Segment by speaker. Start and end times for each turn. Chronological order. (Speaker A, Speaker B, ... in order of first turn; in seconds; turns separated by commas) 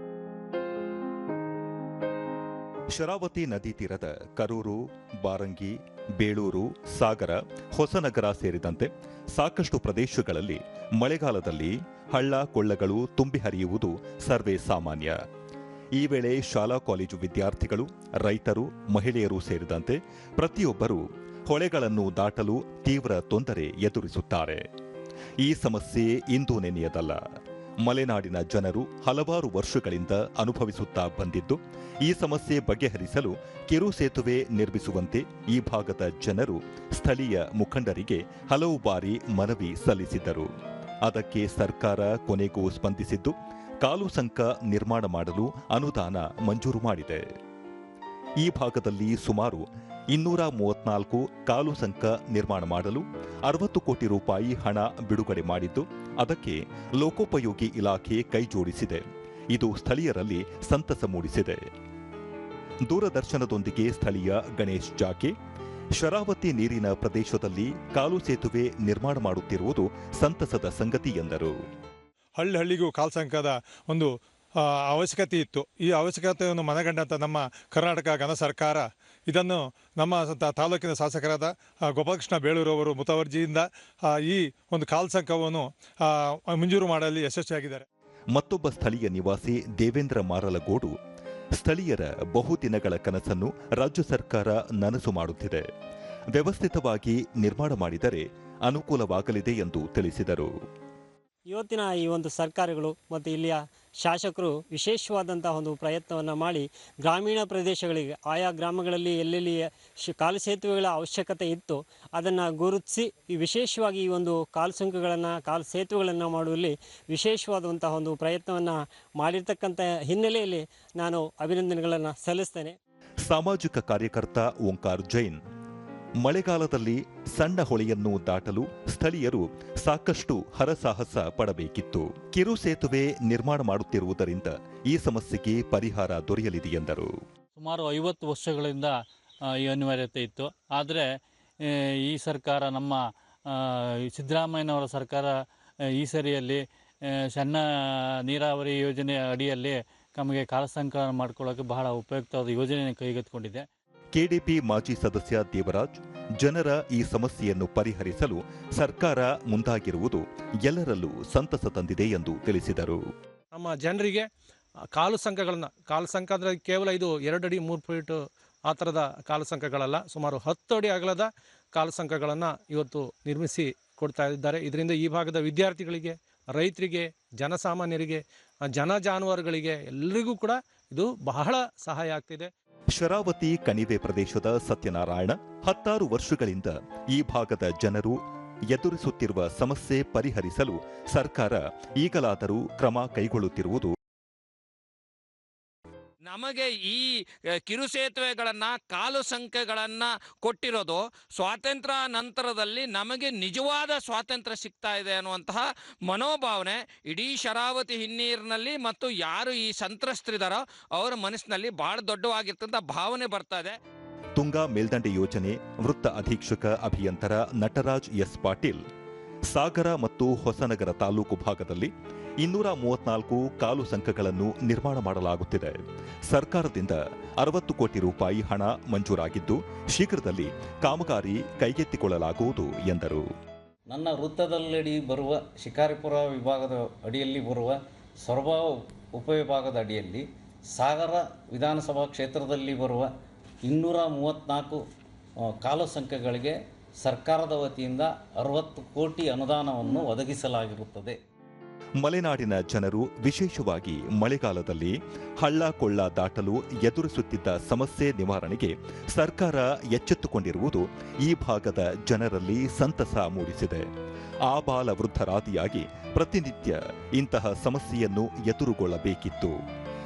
Speaker A: 2.9-15.2, Speaker A: 15.9-24.6, Speaker A: 25.4-27.2, Speaker A: 27.8-40.5, Speaker A: 41.0-47.2, Speaker A: 48.4-61.6, Speaker A: 62.9-65.3, Speaker A: 65.9-71.5, Speaker B: 72.4-87.8, Speaker A: 88.3-90.9, Speaker A: 91.6-95.7, Speaker A: 96.3-100.5, Speaker C: 101.5-122.8, Speaker A: 123.2-125.4, Speaker A: 126.2-137.1, Speaker D: 137.6-138.9, Speaker D: 139.5-141.1, Speaker D: 141.7-145.3, Speaker D: 145.9-146.6, Speaker D: 147.3-147.6, Speaker D: 148.2-153.7, Speaker A: 154.1-163.0, Speaker E: 163.5-164.3, Speaker E: 164.9-182.5, Speaker A: 182.9-188.2, Speaker A: 188.7-193.9, Speaker F: 196.3-197.0, Speaker F: 197.7-213.8, Speaker A: 214.4-218.8, Speaker A: 219.5-225.8, Speaker A: 226.3-233.2, Speaker G: 233.9-243.1, Speaker G: 243.7-244.8, Speaker G: 245.5-251.2, Speaker A: 252.0-263.9, Speaker A: 264.5-269.6